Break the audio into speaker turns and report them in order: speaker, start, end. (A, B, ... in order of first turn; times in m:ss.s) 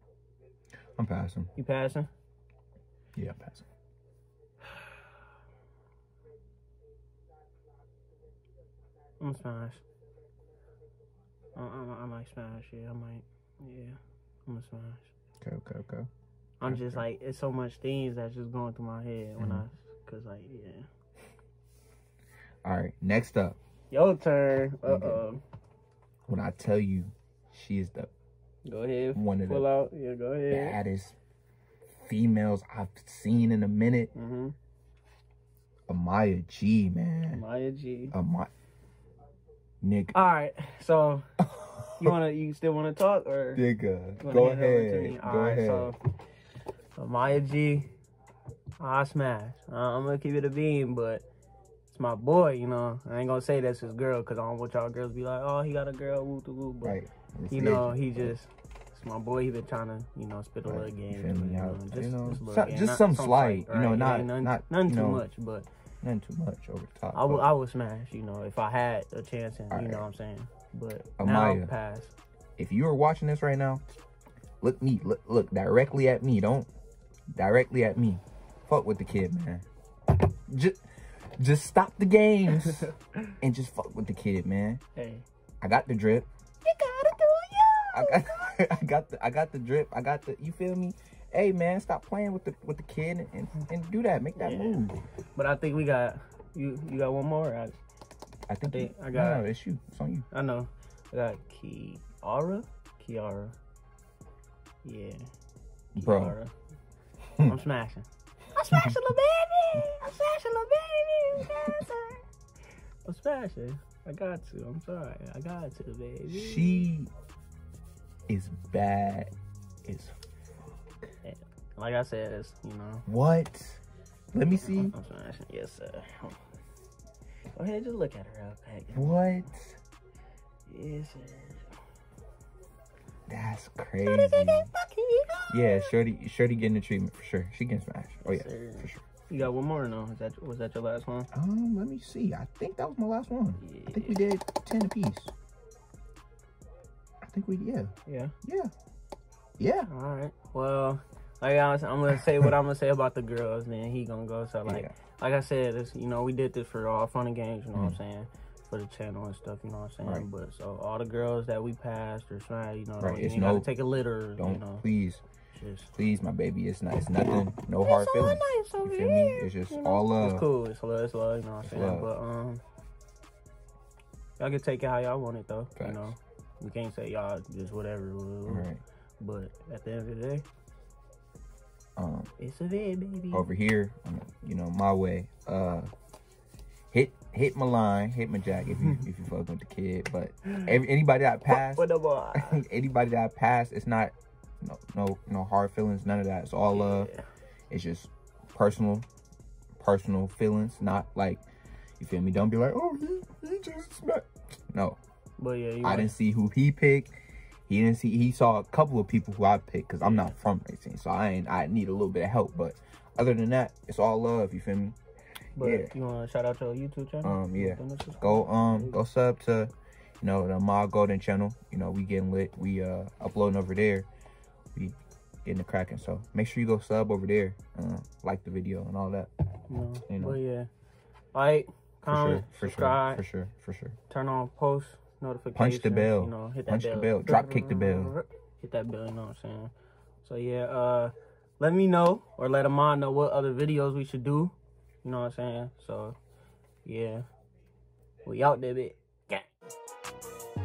0:01.0-0:01.5 A
0:01.6-0:02.1 B
0:03.2-0:03.6 A
0:09.2-0:09.8 B
0:11.5-0:15.1 B
0:15.4-0:16.1 A
0:16.6-0:20.9 B
0:16.6-0:17.0 A
0:19.4-0:19.6 A
0:22.6-0:23.6 A
0:23.9-0:25.4 B
0:24.8-0:25.2 A
0:26.3-0:28.1 A
0:28.6-0:30.8 B
0:29.1-0:29.7 A
0:30.5-0:31.1 A
0:32.0-0:34.1 A
0:34.1-0:34.5 B
0:35.9-0:37.4 A
0:37.3-0:38.1 B
0:38.1-0:38.5 A
0:39.8-0:40.1 A
0:40.1-0:41.3 B
0:41.4-0:42.1 A
0:42.0-0:43.6 B
0:43.5-0:45.9 A
0:44.2-0:46.0 B
0:47.0-0:47.9 B
0:48.8-0:51.2 B
0:51.9-1:05.7 B
0:56.8-0:58.4 A
1:00.6-1:05.2 A
1:06.0-1:07.5 A
1:07.1-1:12.1 B
1:09.7-1:10.1 A
1:11.2-1:11.7 A
1:12.6-1:13.8 A
1:14.6-1:16.7 A
1:17.3-1:20.8 A
1:21.4-1:24.8 A
1:22.5-1:23.3 B
1:24.9-1:25.2 B
1:25.6-1:26.3 A
1:26.6-1:28.4 B
1:27.9-1:35.0 A
1:34.4-1:34.8 B
1:35.3-1:37.8 B
1:38.5-1:40.2 A
1:38.6-1:39.4 B
1:40.3-1:43.6 B
1:44.8-1:45.2 B
1:45.9-1:46.5 B
1:46.0-1:46.4 A
1:47.4-1:52.2 B
1:48.7-1:48.9 A
1:53.0-1:56.9 B
1:56.3-1:57.1 A
1:58.3-1:59.3 A
1:59.8-2:00.2 A
2:01.2-2:03.0 B
2:03.1-2:03.8 A
2:04.3-2:05.0 A
2:04.5-2:06.4 B
2:07.5-2:09.3 B
2:08.9-2:09.8 A
2:10.7-2:11.7 B
2:13.3-2:14.7 A
2:14.0-2:15.8 B
2:15.5-2:19.0 A
2:18.2-2:21.3 B
2:21.3-2:25.3 A
2:23.6-2:24.2 B
2:27.2-2:27.9 A
2:28.0-2:28.3 B
2:28.4-2:28.7 A
2:29.6-2:29.9 A
2:29.9-2:44.8 B
2:34.6-2:34.9 A
2:43.0-2:43.8 A
2:44.4-2:45.2 A
2:45.5-2:45.9 B
2:45.9-2:50.4 A
2:47.8-2:52.6 B
2:51.6-2:52.1 A
2:54.4-3:00.4 B
2:55.8-2:56.1 A
2:58.5-2:58.8 A
3:02.0-3:02.3 A
3:02.4-3:03.5 B
3:03.3-3:05.9 A
3:06.9-3:17.1 A
3:10.4-3:10.7 B
3:11.5-3:12.6 B
3:16.7-3:17.2 B
3:17.7-3:19.0 A
3:19.8-3:21.4 A
3:22.0-3:25.0 A
3:25.4-3:26.1 B
3:25.8-3:27.2 A
3:27.7-3:35.0 A
3:30.0-3:30.3 B
3:35.6-3:39.0 B
3:35.6-3:35.9 A
3:37.2-3:44.1 A
3:44.7-3:49.3 A
3:49.7-3:50.7 B
3:50.0-3:50.4 A
3:51.3-3:53.2 B
3:52.1-3:54.0 A
3:54.1-3:59.7 B
3:55.5-3:58.1 A
4:00.2-4:06.2 B
4:06.8-4:07.2 B
4:08.2-4:09.5 B